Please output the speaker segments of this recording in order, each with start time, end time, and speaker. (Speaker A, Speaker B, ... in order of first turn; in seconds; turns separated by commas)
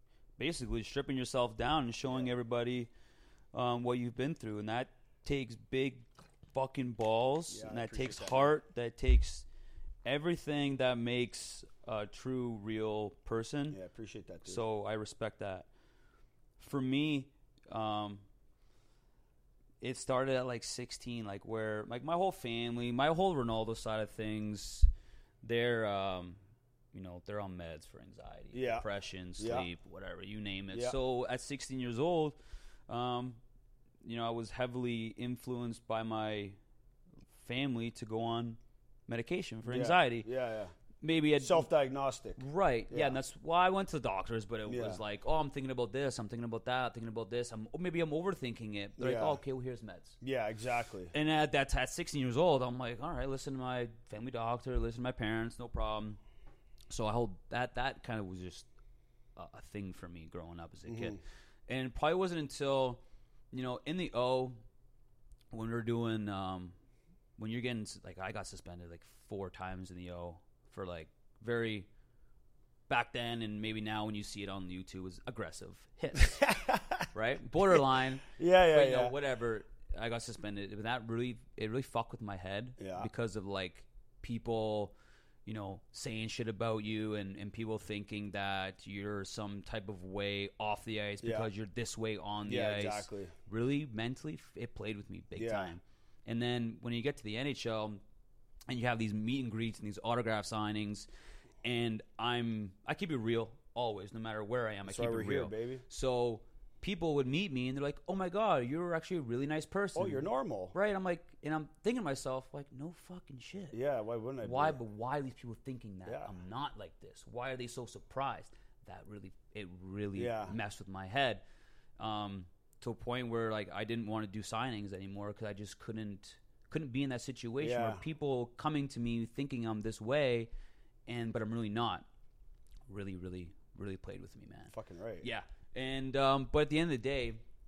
Speaker A: 0.4-2.9, Speaker A: 3.5-9.4, Speaker B: 7.5-8.6, Speaker A: 10.0-13.8, Speaker B: 13.7-14.6, Speaker A: 14.4-15.7, Speaker A: 16.6-18.2, Speaker A: 19.8-24.9, Speaker A: 25.4-26.4, Speaker A: 26.9-33.4, Speaker B: 28.5-28.9, Speaker B: 29.4-29.7, Speaker A: 34.0-36.6, Speaker A: 37.3-40.3, Speaker B: 39.6-40.7, Speaker A: 41.0-41.7, Speaker B: 41.4-43.2, Speaker A: 42.4-50.2, Speaker B: 44.6-45.0, Speaker B: 49.0-49.4, Speaker B: 50.2-51.1, Speaker A: 51.1-56.2, Speaker A: 56.9-58.7, Speaker A: 59.4-64.6, Speaker B: 60.9-61.2, Speaker A: 65.5-66.7, Speaker A: 67.4-71.9, Speaker A: 72.9-76.4, Speaker B: 76.2-77.1, Speaker A: 77.1-84.9, Speaker B: 78.3-79.2, Speaker B: 82.8-83.1, Speaker A: 85.4-98.0, Speaker B: 91.2-91.5, Speaker B: 92.4-93.3, Speaker B: 95.3-95.8, Speaker A: 98.7-101.1, Speaker A: 101.6-113.7, Speaker B: 104.9-105.8, Speaker B: 109.9-110.7, Speaker B: 113.7-114.8, Speaker A: 114.4-121.4, Speaker B: 116.0-116.3, Speaker B: 120.2-120.5, Speaker A: 122.0-130.5, Speaker B: 127.6-128.0, Speaker A: 131.1-132.1, Speaker A: 132.9-137.4, Speaker B: 134.7-135.3